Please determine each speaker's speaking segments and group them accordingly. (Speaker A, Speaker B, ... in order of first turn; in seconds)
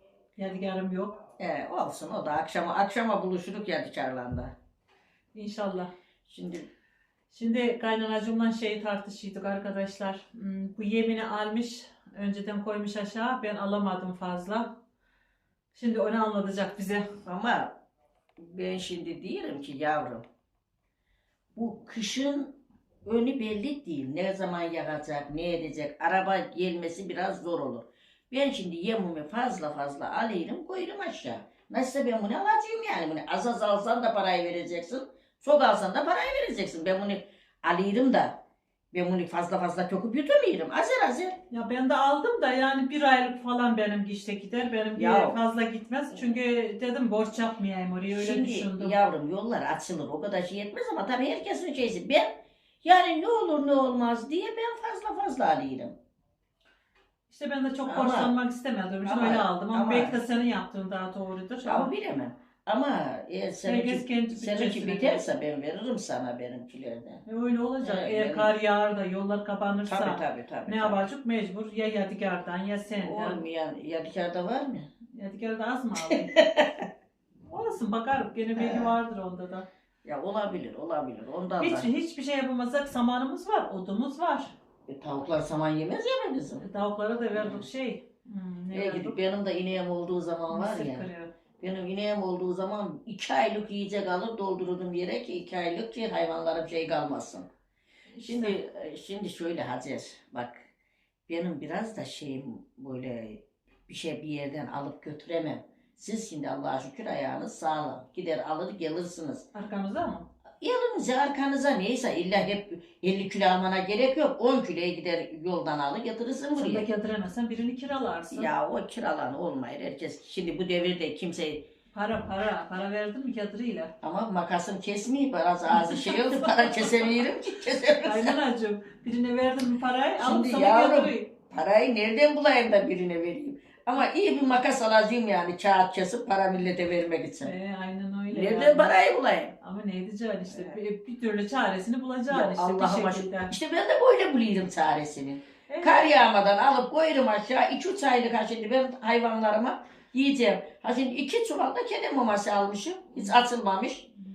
Speaker A: 0.4-1.2, 5.3-5.9, 7.3-14.7, 15.7-17.1, 41.5-49.0, 57.3-61.9, 63.6-65.3, 67.3-73.4, 75.2-76.3, 77.5-79.7, 81.6-84.5, 86.6-89.2, 90.5-91.3, 98.1-98.6, 109.5-110.3, 116.5-118.5, 121.9-123.9, 125.7-127.1, 128.0-131.3, 137.4-138.9, 139.6-143.5, 145.7-146.1
Speaker B: 1.4-4.5, 6.3-6.7, 17.2-17.8, 18.4-20.2, 21.6-38.4, 38.9-41.4, 45.0-45.4, 48.1-52.3, 52.8-56.0, 57.9-58.3, 59.0-60.2, 61.6-67.2, 67.8-68.5, 69.9-71.1, 73.0-74.9, 76.0-76.8, 78.6-79.0, 80.0-81.9, 84.9-86.7, 87.3-87.6, 88.7-91.1, 91.6-97.5, 98.2-100.6, 101.3-109.5, 110.6-116.9, 118.3-121.7, 124.0-128.4, 130.2-137.5, 138.3-139.6, 140.5-140.8, 142.3-154.1